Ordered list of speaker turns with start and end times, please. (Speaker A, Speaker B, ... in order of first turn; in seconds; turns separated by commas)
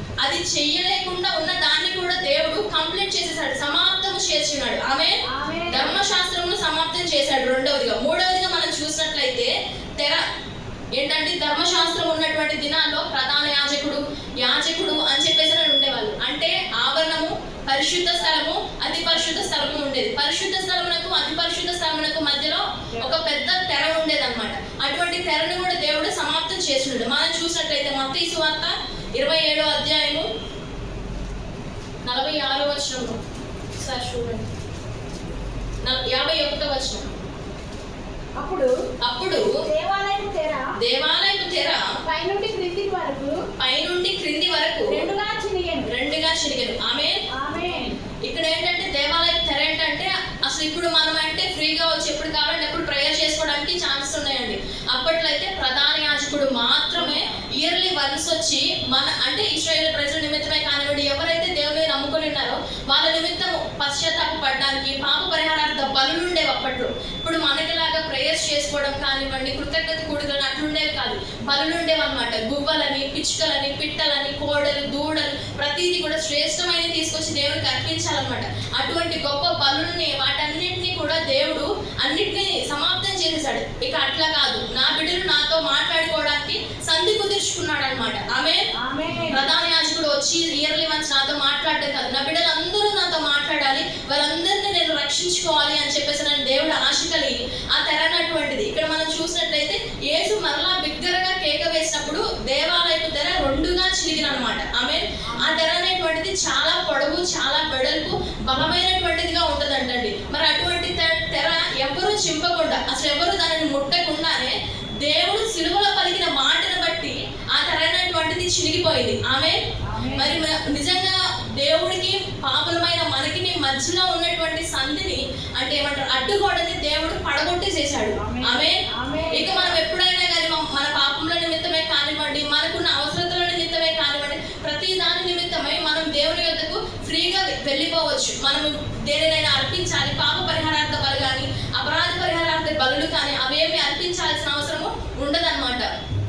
Speaker A: 0.2-10.2, Speaker B: 5.3-6.0, Speaker A: 10.9-30.3, Speaker A: 32.0-33.2, Speaker A: 33.8-34.5, Speaker A: 35.8-37.1, Speaker B: 38.4-38.7, Speaker A: 39.0-39.5, Speaker B: 39.6-40.6, Speaker A: 40.8-41.8, Speaker B: 42.0-43.4, Speaker A: 43.6-45.0, Speaker B: 44.9-45.9, Speaker A: 45.8-47.1, Speaker B: 47.4-48.0, Speaker A: 48.2-88.6, Speaker B: 88.8-89.4, Speaker A: 89.3-119.6, Speaker B: 105.3-105.6, Speaker B: 119.9-120.4, Speaker A: 120.1-145.9, Speaker B: 128.2-129.8